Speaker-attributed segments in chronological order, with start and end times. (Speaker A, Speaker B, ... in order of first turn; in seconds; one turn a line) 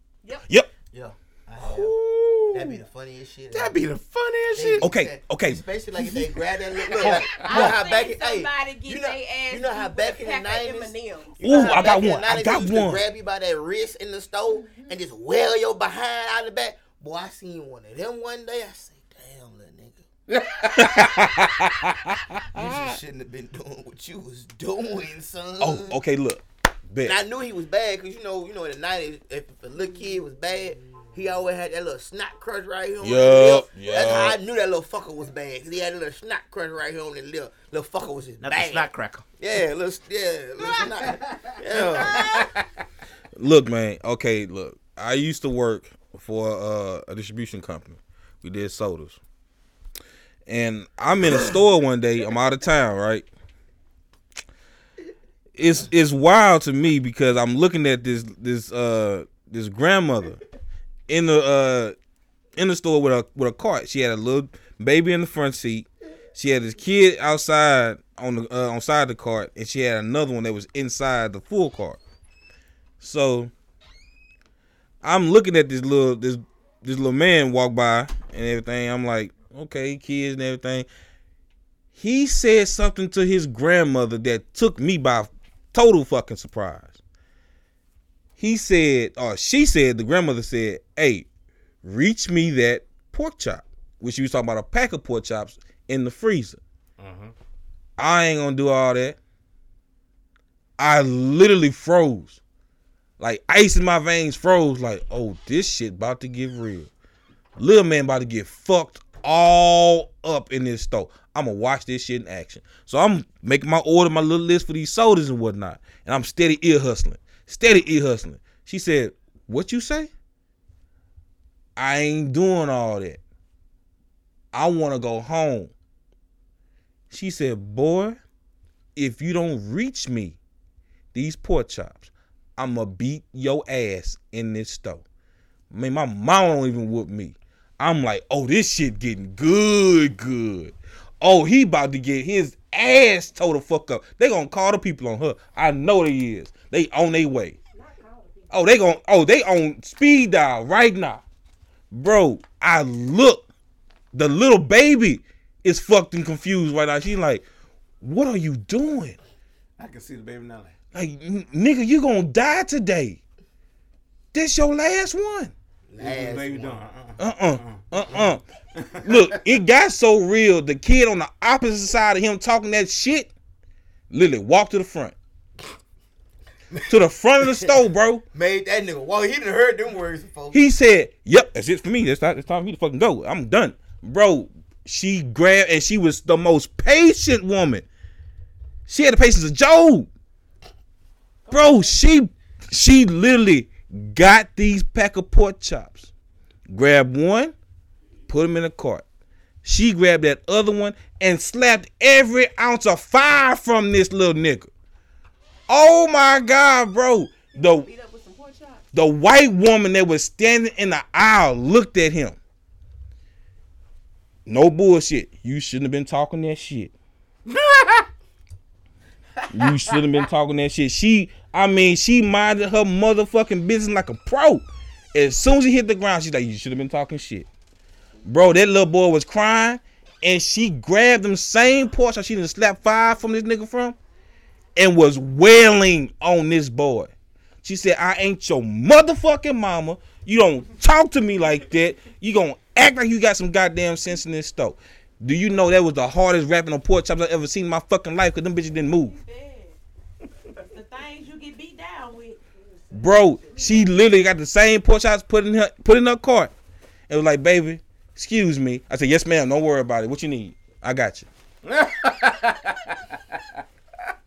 Speaker A: 0.9-2.0
Speaker B: 1.6-2.8
Speaker A: 2.5-3.8
Speaker B: 3.5-4.9
Speaker A: 4.5-20.0
Speaker C: 4.8-6.3
Speaker C: 7.0-7.8
Speaker B: 7.0-7.2
Speaker D: 7.3-11.9
Speaker C: 11.4-13.0
Speaker B: 20.3-21.3
Speaker C: 20.8-23.0
Speaker A: 22.5-26.0
Speaker C: 25.6-27.2
Speaker A: 27.0-42.3
Speaker C: 33.0-34.4
Speaker B: 38.4-39.3
Speaker B: 42.0-42.6
Speaker C: 43.3-49.2
Speaker C: 50.5-53.3
Speaker C: 55.5-60.4
Speaker C: 61.1-62.0
Speaker C: 62.5-72.0
Speaker C: 73.0-73.5
Speaker C: 75.0-80.9
Speaker C: 81.9-87.0
Speaker C: 88.4-91.3
Speaker C: 91.8-96.6
Speaker B: 97.0-97.3
Speaker C: 98.0-99.2
Speaker C: 100.8-102.4
Speaker C: 103.2-106.9
Speaker C: 107.6-120.1
Speaker C: 121.8-123.2
Speaker C: 124.5-125.7
Speaker C: 127.1-128.2
Speaker C: 128.9-130.4
Speaker C: 131.1-135.0
Speaker C: 135.7-147.6
Speaker D: 147.7-148.7
Speaker C: 148.5-151.2
Speaker C: 151.9-153.5
Speaker C: 154.1-157.4
Speaker C: 158.0-159.2
Speaker B: 159.8-160.7
Speaker C: 160.9-163.2
Speaker C: 164.3-165.5
Speaker A: 165.9-166.8
Speaker B: 166.0-169.4
Speaker C: 167.2-168.4
Speaker C: 169.0-173.3
Speaker C: 174.1-175.1
Speaker C: 176.9-178.2
Speaker A: 178.3-180.6
Speaker C: 180.5-187.8
Speaker C: 188.9-190.1
Speaker D: 191.4-192.0
Speaker C: 191.5-196.1
Speaker C: 196.7-197.5
Speaker C: 198.3-199.0
Speaker C: 199.6-204.7
Speaker C: 205.7-207.9
Speaker D: 207.5-208.8
Speaker C: 208.9-212.4
Speaker C: 214.4-216.9
Speaker B: 217.4-218.1
Speaker C: 219.5-227.5
Speaker C: 228.2-234.0
Speaker C: 234.8-237.1
Speaker C: 237.6-249.2
Speaker D: 249.0-249.8
Speaker D: 250.6-254.0
Speaker C: 252.9-256.5
Speaker C: 257.1-261.3
Speaker B: 261.6-263.6